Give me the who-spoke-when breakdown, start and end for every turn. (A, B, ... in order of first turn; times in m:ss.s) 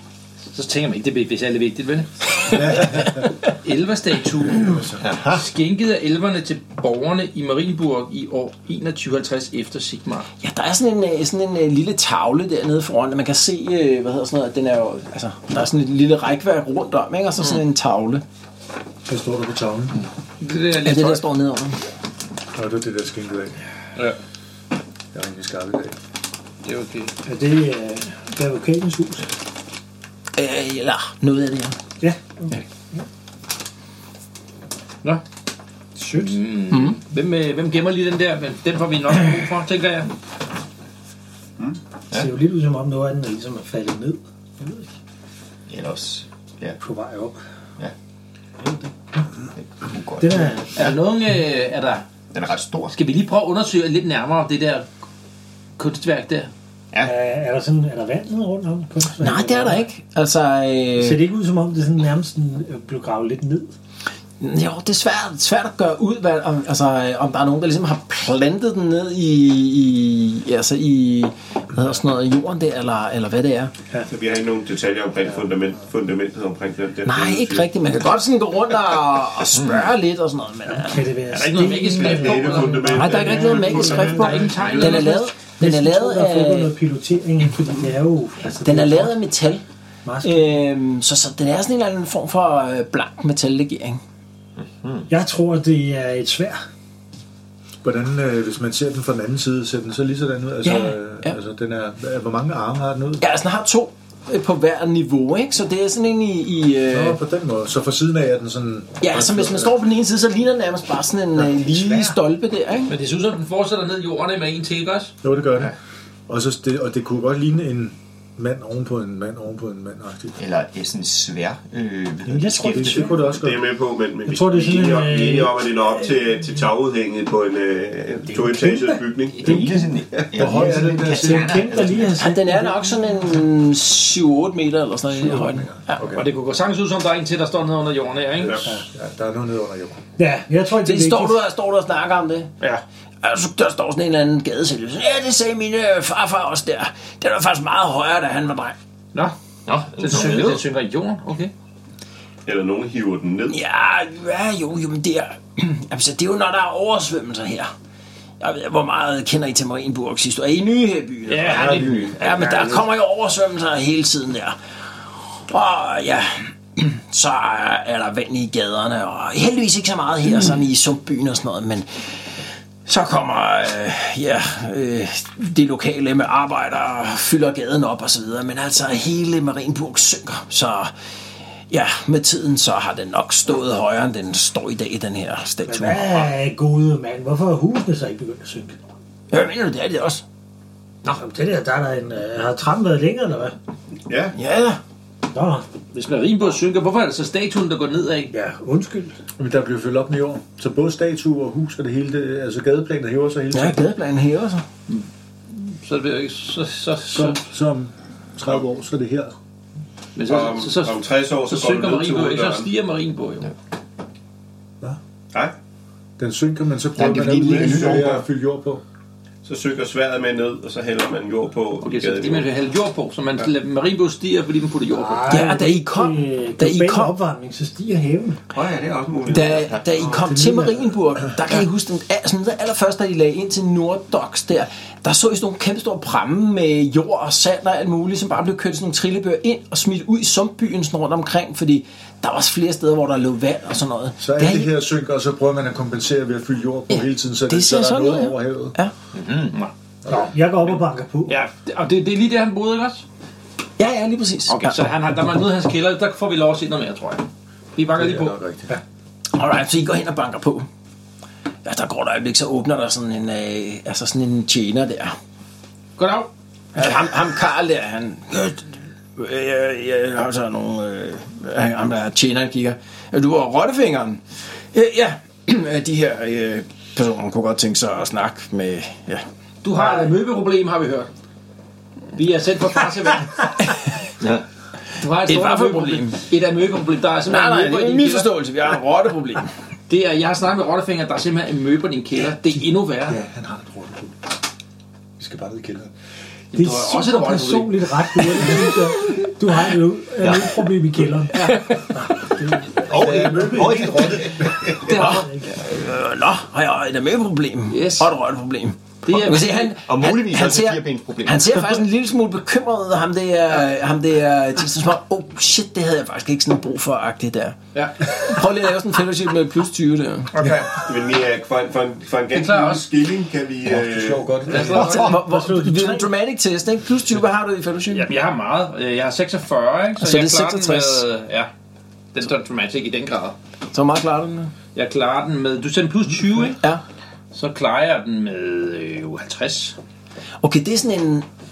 0:00.5-0:10.3 A
0:02.5-0:03.2 B
0:04.5-0:05.0 B
0:05.0-0:05.4 C
0:10.4-0:18.2 D
0:19.1-0:20.0 B
0:20.4-0:21.2 A
0:20.8-0:21.8 D
0:22.5-0:23.6 B
0:25.1-0:26.0 B
0:26.6-0:27.1 A
0:27.2-0:29.3 E
0:30.4-0:31.8 D
0:32.0-0:33.0 E
0:36.0-0:36.4 E
0:36.1-0:40.1 A
0:36.7-0:37.0 D
0:42.1-0:42.4 C
0:42.1-0:44.9 E
0:45.7-0:46.8 C
0:46.8-0:47.4 E
0:48.6-0:49.2 E
0:49.6-0:51.0 C
0:50.2-0:50.8 E
0:50.8-0:52.0 A
0:52.3-0:53.0 C
0:52.9-0:54.9 A
0:55.8-0:56.5 A
0:57.0-0:59.9 E
0:59.2-1:01.2 D
1:01.0-1:03.7 E
1:04.4-1:13.7 D
1:14.1-1:18.2 F
1:17.0-1:21.1 D
1:19.5-1:19.9 C
1:20.7-1:29.2 E
1:21.3-1:25.3 A
1:21.9-1:24.8 F
1:22.9-1:26.7 D
1:28.6-1:29.6 D
1:30.0-1:30.6 E
1:30.2-1:34.0 D
1:34.6-1:35.1 C
1:35.1-1:36.6 E
1:37.8-1:43.2 B
1:40.6-1:41.4 D
1:43.2-1:47.2 D
1:46.9-1:49.8 B
1:49.0-1:52.9 D
1:51.5-1:52.2 E
1:52.9-1:55.1 A
1:55.2-1:55.8 B
1:56.3-2:00.4 B
2:00.4-2:03.2 C
2:02.3-2:03.3 E
2:02.6-2:03.6 B
2:03.1-2:10.4 F
2:04.3-2:06.1 E
2:08.3-2:09.9 E
2:09.4-2:12.2 C
2:10.4-2:11.9 B
2:10.8-2:13.4 E
2:12.2-2:16.0 D
2:15.1-2:16.3 B
2:16.1-2:18.8 A
2:18.4-2:18.7 F
2:18.9-2:20.0 B
2:20.2-2:21.4 E
2:20.8-2:22.5 D
2:23.2-2:28.8 D
2:29.1-2:31.5 A
2:29.8-2:30.6 C
2:32.5-2:33.6 F
2:33.5-2:37.7 D
2:38.4-2:44.6 D
2:41.3-2:42.8 A
2:41.4-2:42.2 C
2:45.5-2:52.3 D
2:52.9-3:00.9 D
3:01.7-3:06.3 D
3:05.7-3:08.8 E
3:09.3-3:10.2 D
3:11.1-3:13.6 E
3:14.1-3:14.4 F
3:14.3-3:14.8 D
3:15.3-3:15.7 E
3:15.9-3:18.3 A
3:18.3-3:19.2 E
3:19.4-3:23.9 B
3:23.5-3:24.6 D
3:24.9-3:27.4 A
3:27.1-3:29.3 B
3:30.2-3:33.5 A
3:30.2-3:32.7 F
3:36.2-3:38.8 B
3:37.0-3:38.2 C
3:37.1-3:38.2 F
3:39.4-3:42.5 F
3:41.8-3:45.4 A
3:44.9-3:48.4 E
3:45.3-3:47.2 D
3:48.5-3:50.1 F
3:49.3-4:04.7 D
3:49.3-3:49.9 C
3:50.2-3:50.6 E
3:50.4-3:50.7 B
4:04.2-4:08.8 B
4:06.9-4:08.9 D
4:09.1-4:09.6 C
4:10.0-4:10.3 B
4:10.1-4:11.4 E
4:11.3-4:13.0 A
4:13.8-4:14.8 D
4:14.5-4:18.4 A
4:18.0-4:18.8 B
4:19.3-4:20.7 D
4:21.6-4:25.2 D
4:26.0-4:26.3 A
4:26.8-4:34.2 D
4:34.7-4:39.3 D
4:39.6-4:41.1 A
4:42.1-4:43.5 A
4:44.2-4:44.5 C
4:45.0-4:48.3 A
4:45.2-4:46.2 D
4:47.3-4:49.5 D
4:49.9-4:53.2 A
4:53.0-4:54.2 B
4:55.2-4:55.9 B
4:56.5-4:58.6 A
4:56.5-5:03.8 E
5:00.2-5:00.6 C
5:01.4-5:01.8 A
5:02.8-5:05.0 C
5:02.9-5:04.6 B
5:04.8-5:20.3 D
5:04.9-5:05.6 E
5:07.7-5:08.1 A
5:09.0-5:09.7 A
5:09.8-5:11.6 C
5:17.7-5:18.2 A
5:20.3-5:20.8 A
5:20.7-5:24.5 F
5:22.3-5:22.9 A
5:23.6-5:25.1 B
5:24.5-5:25.2 A
5:24.5-5:26.1 E
5:24.8-5:28.1 D
5:27.9-5:31.5 A
5:30.0-5:31.0 D
5:32.1-5:33.4 A
5:33.7-5:34.5 D
5:34.8-5:36.6 A
5:37.3-5:39.8 A
5:40.4-5:41.3 D